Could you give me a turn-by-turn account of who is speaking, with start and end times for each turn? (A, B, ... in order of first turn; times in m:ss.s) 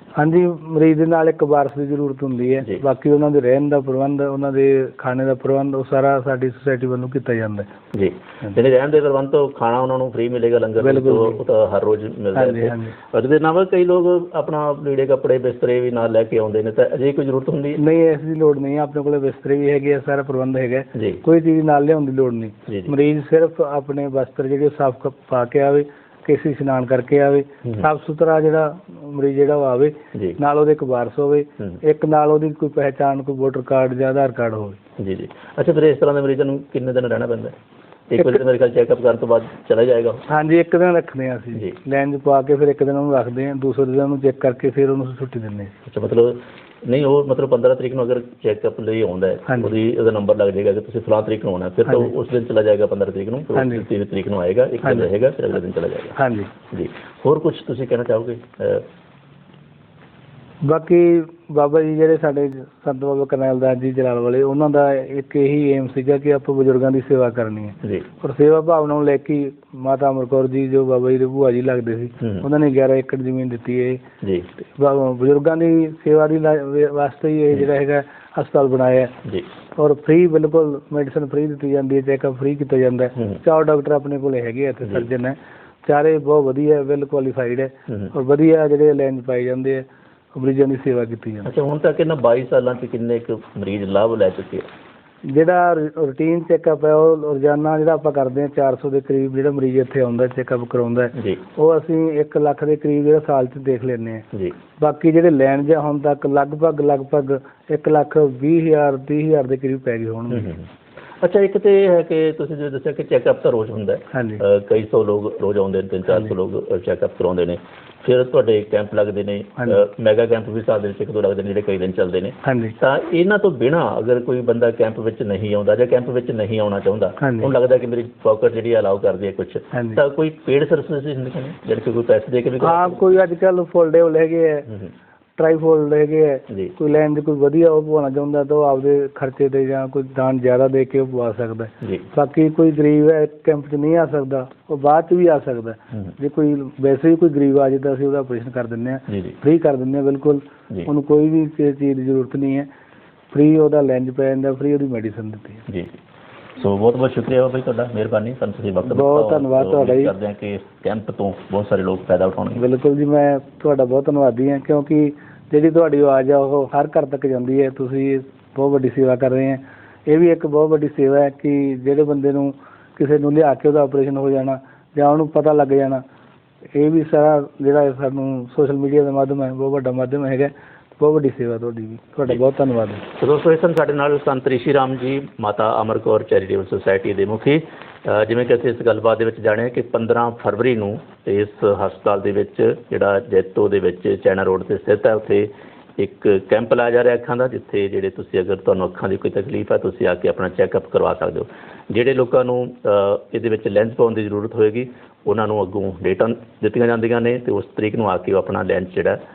0:00.2-0:07.7 A
0:07.9-0:17.8 B
0:10.8-0:11.4 A
0:12.4-0:13.0 A
0:17.8-0:34.8 A
0:21.0-0:21.2 B
0:35.0-0:37.6 B
0:38.1-0:40.2 B
0:40.3-0:45.7 A
0:45.9-0:56.2 B
0:49.5-0:49.7 A
0:51.9-0:52.1 A
0:53.6-0:53.9 A
0:54.8-0:55.1 A
0:56.2-0:56.5 A
0:56.7-0:58.9 B
1:00.6-1:14.0 A
1:14.2-1:14.5 B
1:14.6-1:19.2 A
1:19.8-1:31.5 A
1:31.4-1:34.7 B
1:35.3-1:44.3 A
1:44.8-1:50.5 A
1:50.3-1:50.7 B
1:51.2-2:13.0 B
1:54.1-1:54.4 A
2:02.4-2:02.8 A
2:07.2-2:07.5 A
2:09.7-2:10.0 A
2:12.6-2:14.7 A
2:15.4-2:32.7 A
2:29.1-2:29.4 B
2:33.3-2:35.6 A
2:35.7-2:36.0 B
2:36.6-2:42.6 B
2:38.8-2:40.2 A
2:42.6-2:56.0 A
2:56.8-3:03.0 A
3:03.1-3:29.2 B